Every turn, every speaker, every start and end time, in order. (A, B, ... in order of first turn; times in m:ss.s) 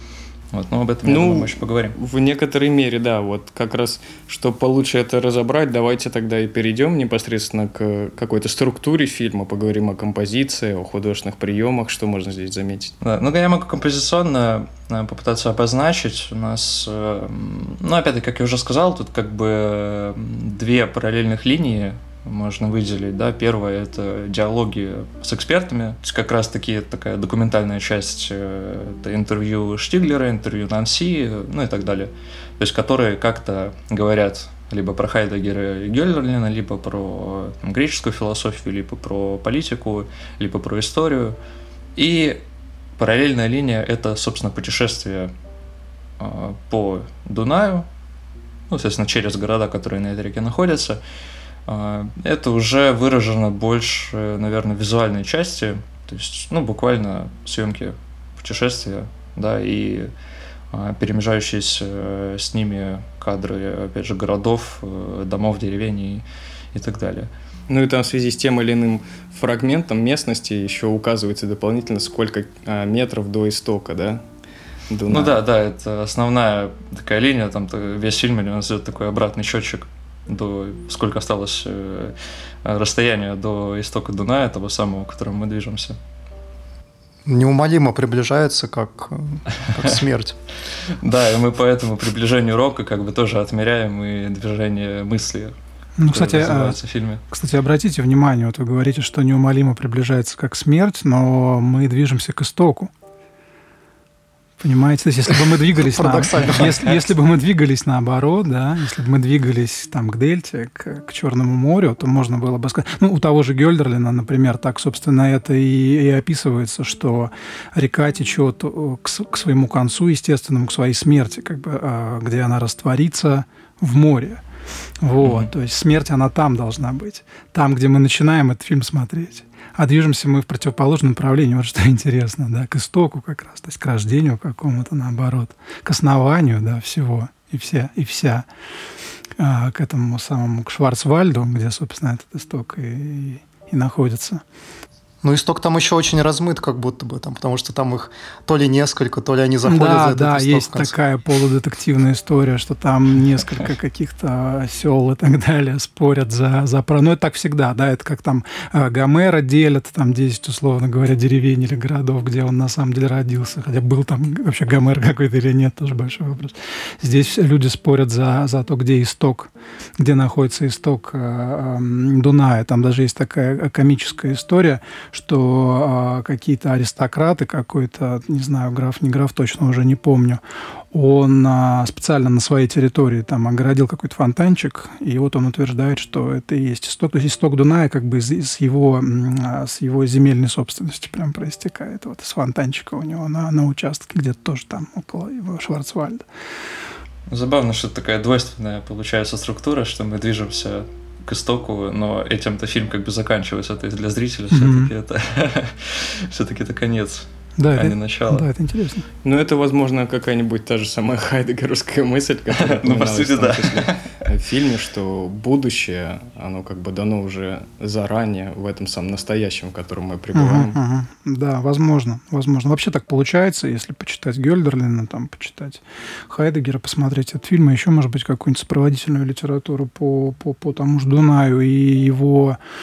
0:00.5-0:02.0 A
0:01.0-0:12.9 B
0:13.0-0:41.4 A
0:42.0-0:42.4 A
0:43.0-0:45.3 A
0:46.2-0:47.9 A
0:48.7-0:51.0 A
0:51.7-1:00.1 A
1:00.7-1:07.3 A
1:07.7-1:14.2 B
1:14.9-1:15.4 B
1:15.1-1:26.0 A
1:27.3-1:30.4 C
1:31.0-1:35.5 A
1:36.0-1:36.8 D
1:36.1-1:37.2 A
1:37.3-1:42.9 D
1:44.6-2:04.4 D
1:45.6-1:47.0 C
2:05.0-2:18.5 D
2:05.2-2:05.5 A
2:19.4-2:24.4 D
2:25.2-2:30.9 C
2:29.6-3:16.3 D
3:17.3-3:28.5 A
3:24.5-3:24.9 D
3:27.6-3:29.1 D
3:29.2-3:40.8 B
3:32.5-3:34.0 A
3:40.3-3:52.6 D